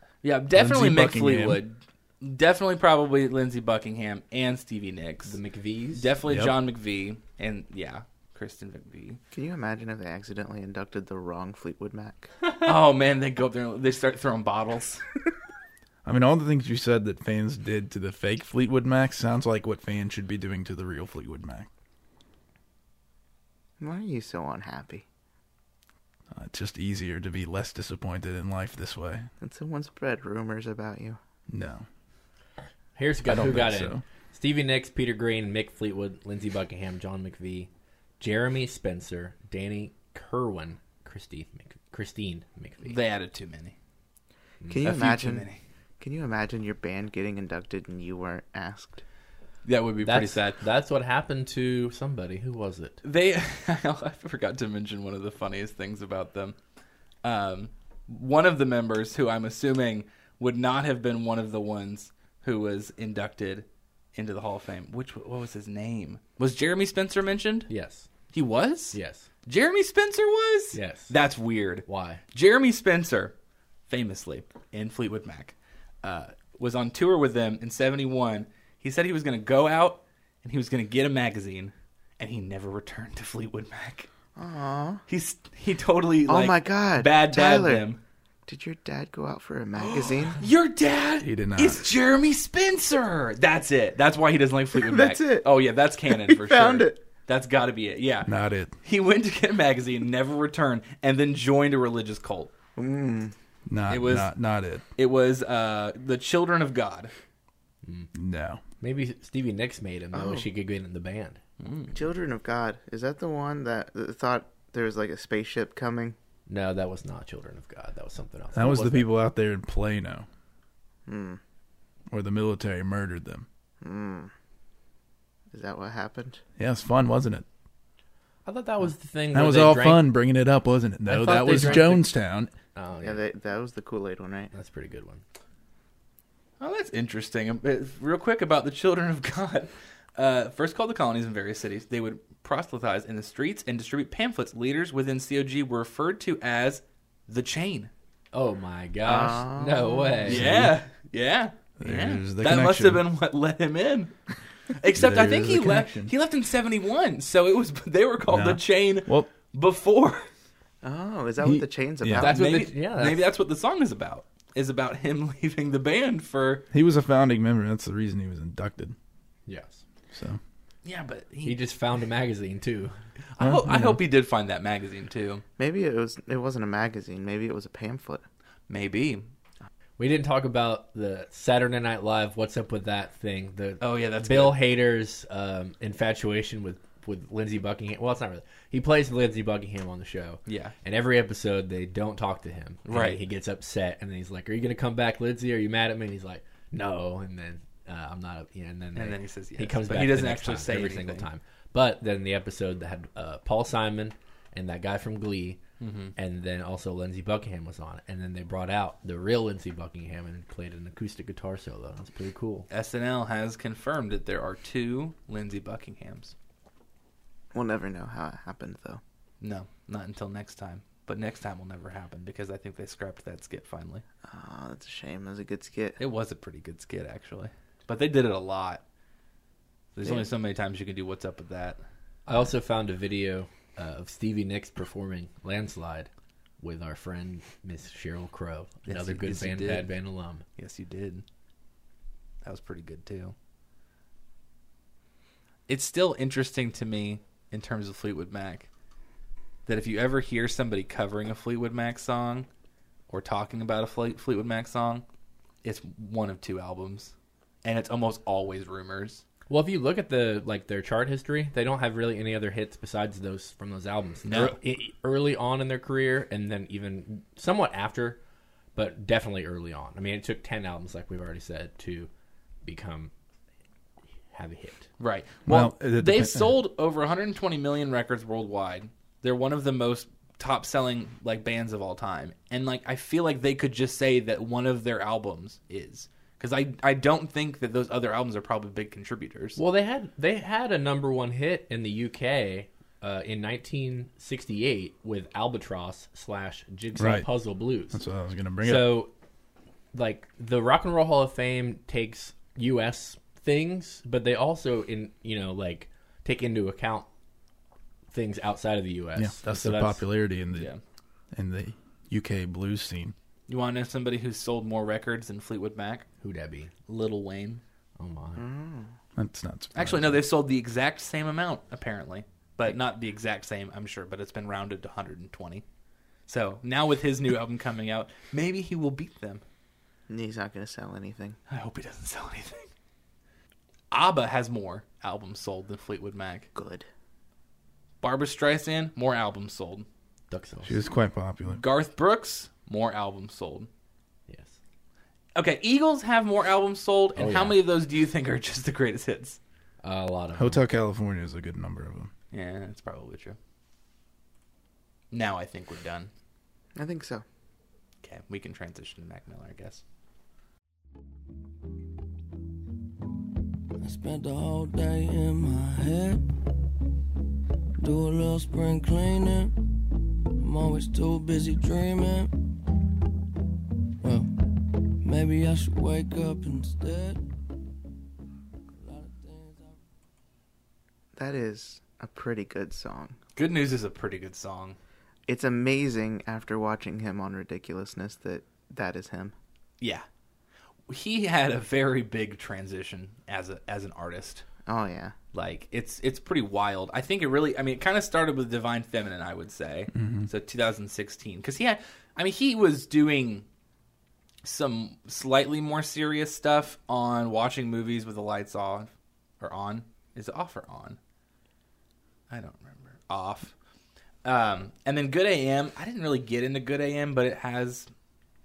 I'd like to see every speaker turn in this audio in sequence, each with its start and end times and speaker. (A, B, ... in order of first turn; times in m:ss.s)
0:00.2-0:05.4 A
0:00.5-0:01.6 B
0:05.3-0:06.1 C
0:06.0-0:09.2 A
0:06.3-0:06.5 B
0:09.3-0:12.3 D
0:12.6-0:15.0 A
0:16.0-0:21.7 B
0:23.8-0:25.0 D
0:26.3-0:29.3 B
0:29.4-0:31.2 D
0:31.5-0:31.9 B
0:33.0-0:43.0 C
0:33.2-0:34.0 B
0:42.8-0:43.8 A
0:44.7-0:45.5 D
0:44.8-0:45.6 A
0:46.0-0:49.0 D
0:49.6-0:50.4 A
0:50.0-0:53.0 C
0:53.0-0:56.6 A
0:57.2-1:07.7 A
1:07.7-1:08.1 C
1:08.3-1:13.3 A
1:08.9-1:09.3 C
1:10.7-1:11.1 C
1:11.9-1:12.2 C
1:13.9-1:24.1 A
1:24.4-1:25.0 D
1:25.1-1:28.0 A
1:26.3-1:27.9 D
1:28.5-1:30.4 D
1:29.8-1:42.5 A
1:31.2-1:31.9 B
1:34.8-1:35.5 D
1:36.1-1:37.0 D
1:38.2-1:38.7 B
1:42.8-1:43.3 D
1:43.7-1:44.8 B
1:43.9-1:44.3 A
1:45.0-1:47.1 A
1:47.8-1:48.1 C
1:48.1-1:48.6 B
1:48.8-1:51.4 C
1:50.1-1:50.5 D
1:51.6-1:52.0 A
1:51.9-1:56.2 D
1:56.5-1:59.1 C
1:58.5-2:00.3 B
2:01.1-2:01.4 D
2:02.1-2:03.5 B
2:03.8-2:04.3 D
2:05.5-2:06.4 D
2:06.6-2:07.5 B
2:08.5-2:10.1 C
2:09.3-2:12.5 B
2:11.1-2:12.2 C
2:12.8-2:13.2 C
2:13.0-2:14.5 D
2:14.5-2:15.2 C
2:16.6-2:27.9 A
2:28.3-2:30.5 C
2:29.0-2:30.5 D
2:30.2-2:30.8 B
2:30.3-2:34.2 A
2:31.8-2:33.0 B
2:34.7-2:40.3 A
2:34.9-2:36.1 B
2:38.3-2:39.3 B
2:40.8-2:42.3 D
2:41.4-2:42.3 B
2:42.2-2:43.3 C
2:42.2-2:46.7 A
2:46.7-2:49.0 B
2:49.5-2:49.8 C
2:50.1-2:50.4 B
2:50.8-2:51.6 A
2:51.4-2:53.0 C
2:53.4-2:55.4 A
2:53.4-2:54.0 B
2:55.6-2:58.2 D
2:58.7-2:59.3 A
3:00.0-3:25.6 C
3:03.8-3:04.6 A
3:10.5-3:10.8 A
3:12.9-3:13.2 A
3:19.0-3:21.3 A
3:25.8-3:26.1 A
3:26.2-3:32.7 C
3:32.7-3:36.3 A
3:37.5-3:39.0 D
3:39.4-3:44.0 A
3:44.3-3:46.0 D
3:46.0-3:48.8 A
3:50.0-3:51.8 A
3:52.3-4:00.4 C
3:58.9-3:59.9 A
4:00.6-4:01.2 A
4:02.4-4:03.3 A
4:05.7-4:08.7 A
4:09.7-4:12.5 A
4:13.1-4:15.0 A
4:15.6-4:19.2 A
4:19.5-4:28.2 C
4:24.3-4:24.6 A
4:28.8-4:32.1 C
4:32.6-4:33.1 C
4:34.3-4:34.9 C
4:35.0-4:49.6 A
4:35.5-4:36.6 B
4:49.6-4:58.0 C
4:57.0-4:57.3 B
4:57.9-4:59.0 B
4:58.6-4:59.1 C
4:59.9-5:07.1 C
5:08.1-5:10.0 C
5:09.2-5:10.7 B
5:10.5-5:10.8 A
5:11.3-5:13.2 B
5:13.5-5:16.1 A
5:16.2-5:16.7 C
5:16.9-5:17.6 A
5:18.0-5:18.4 C
5:18.4-5:18.9 D
5:19.2-5:20.2 B
5:19.8-5:25.6 A
5:26.3-5:29.4 A
5:30.1-5:31.4 D
5:31.5-5:32.7 A
5:33.9-5:36.5 A
5:36.6-5:36.9 D
5:38.0-5:39.9 A
5:40.3-5:40.8 C
5:40.6-5:41.6 B
5:41.5-5:43.7 A
5:44.3-5:44.6 C
5:45.4-5:49.4 A
5:47.2-5:47.6 C
5:49.8-5:50.6 C
5:50.4-5:52.1 B
5:52.3-5:53.4 A
5:55.1-5:56.1 A
5:56.8-5:57.2 D
5:58.0-5:59.8 A
6:03.8-6:06.2 E
6:07.8-6:09.5 E
6:10.4-6:12.3 E
6:14.0-6:14.3 E
6:15.0-6:17.2 E
6:18.8-6:19.8 E
6:21.2-6:23.2 D
6:23.4-6:24.8 A
6:25.3-6:29.3 D
6:30.9-6:34.4 A
6:34.7-6:35.2 D
6:35.3-6:43.5 A
6:39.9-6:40.3 B
6:44.4-6:51.0 A
6:52.3-6:53.5 A
6:54.2-6:57.9 A